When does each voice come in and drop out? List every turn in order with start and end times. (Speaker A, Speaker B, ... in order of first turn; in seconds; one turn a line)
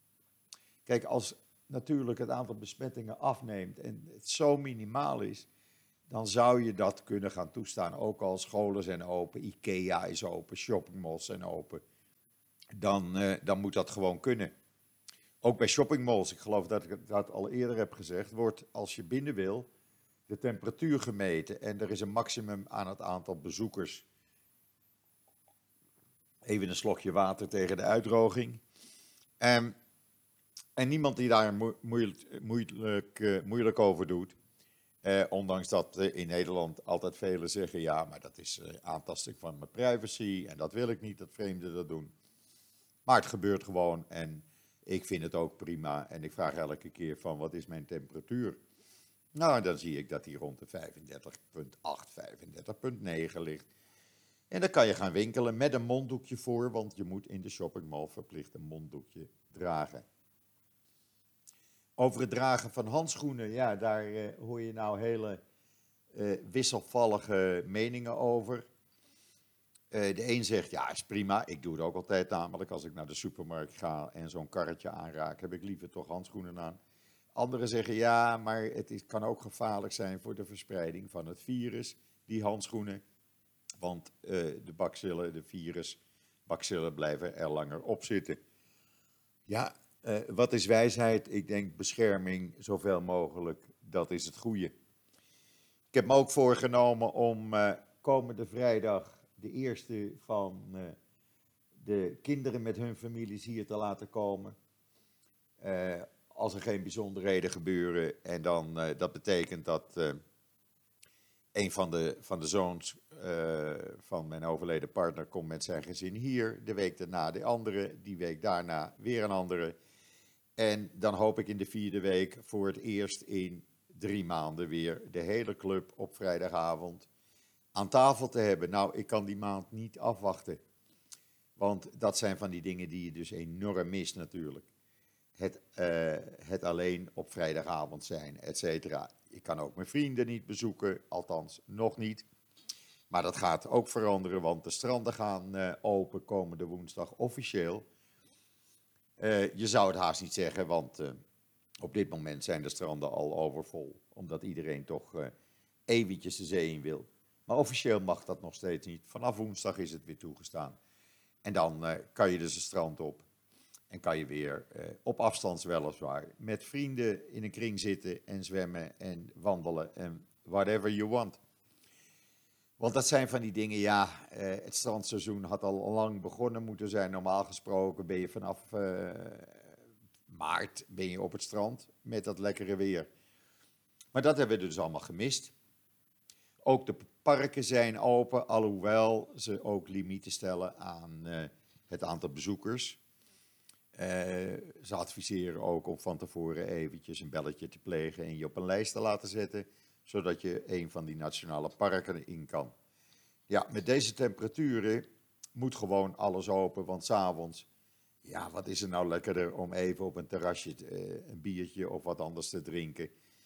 Speaker A: 0.8-5.5
Speaker A: 6.1-11.8
Speaker A: 12.8-14.5
Speaker A: 15.4-19.7
Speaker A: 20.3-24.0
Speaker A: 26.4-28.6
Speaker A: 29.4-29.7
Speaker A: 30.8-34.3
Speaker A: 35.0-42.1
Speaker A: 43.0-48.6
Speaker A: 49.3-53.6
Speaker A: 54.5-60.0
Speaker A: 62.0-65.4
Speaker A: 66.1-68.7
Speaker A: 69.9-76.8
Speaker A: 77.3-83.0
Speaker A: 83.8-88.4
Speaker A: 89.5-94.7
Speaker A: 95.9-101.0
Speaker A: 101.8-104.5
Speaker A: 105.6-110.2
Speaker A: 111.5-119.8
Speaker A: 120.6-127.1
Speaker A: 127.7-130.6
Speaker A: 131.6-134.7
Speaker A: 135.4-142.2
Speaker A: 143.1-147.8
Speaker A: 149.2-151.2
Speaker A: 151.8-155.3
Speaker A: 155.9-160.8
Speaker A: 161.4-163.2
Speaker A: 163.9-171.4
Speaker A: 172.8-179.6
Speaker A: 180.3-183.1
Speaker A: 184.1-185.5
Speaker A: 186.6-193.0
Speaker A: 193.9-202.7
Speaker A: 203.5-207.7
Speaker A: 208.2-213.1